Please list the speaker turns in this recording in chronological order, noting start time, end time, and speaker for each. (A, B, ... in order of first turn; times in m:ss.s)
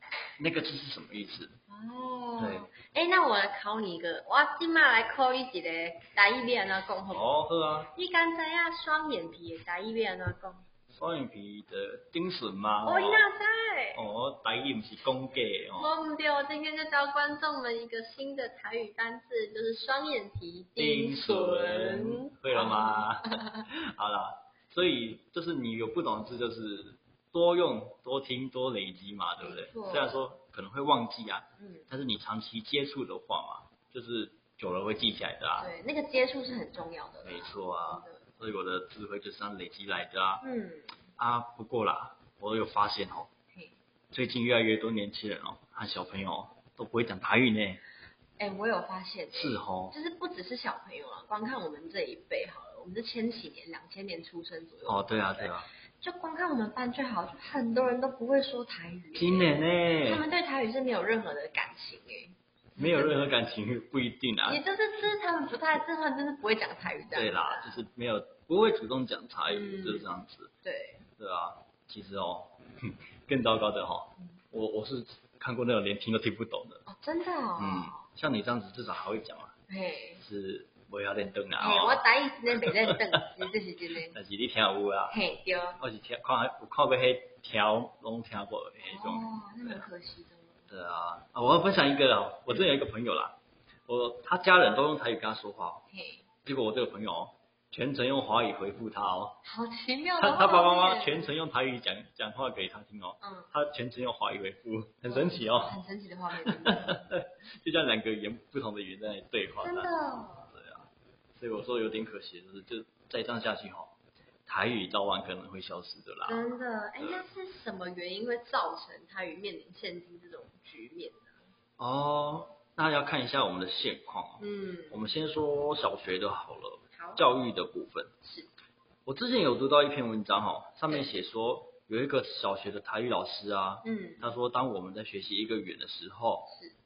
0:00.4-0:01.6 A
0:01.7-0:07.3 B
0:02.4-0:02.7 A
0:07.1-0:07.9 A
0:07.9-0:10.6 B
0:10.9-0:13.2 A
0:12.8-0:14.0 B
0:14.0-0:15.9 A
0:15.8-0:23.6 B
0:20.8-0:35.7 A
0:29.4-0:30.1 B
0:31.6-0:31.9 B
0:35.6-0:38.2 B
0:37.2-0:40.4 A
0:40.4-0:40.9 B
0:41.2-0:43.3 A
0:44.1-0:47.8 A
0:48.4-1:03.3 B
0:49.3-0:50.0 A
0:54.9-0:55.7 A
0:59.2-1:00.2 A
1:02.8-1:04.6 A
1:04.4-1:07.8 B
1:07.1-1:10.5 A
1:09.5-1:10.1 B
1:10.6-1:11.0 B
1:11.2-1:16.8 A
1:16.9-1:18.0 B
1:17.6-1:19.5 A
1:19.7-1:20.2 B
1:20.2-1:22.0 A
1:21.6-1:24.2 B
1:22.7-1:23.5 A
1:24.1-1:25.2 A
1:25.1-1:25.8 B
1:25.8-1:29.9 A
1:28.8-1:30.7 B
1:30.7-1:33.4 A
1:33.9-1:35.9 A
1:35.9-1:36.2 B
1:36.4-1:39.4 A
1:39.4-1:41.3 B
1:40.2-1:45.8 A
1:43.2-1:43.5 B
1:45.1-1:47.1 B
1:46.5-1:49.9 A
1:49.6-1:50.5 B
1:50.5-1:53.9 A
1:54.5-1:57.2 A
1:56.3-2:01.3 B
2:01.8-2:08.1 A
2:04.4-2:05.0 B
2:06.9-2:07.2 B
2:08.2-2:08.5 B
2:09.1-2:16.5 A
2:13.8-2:14.3 B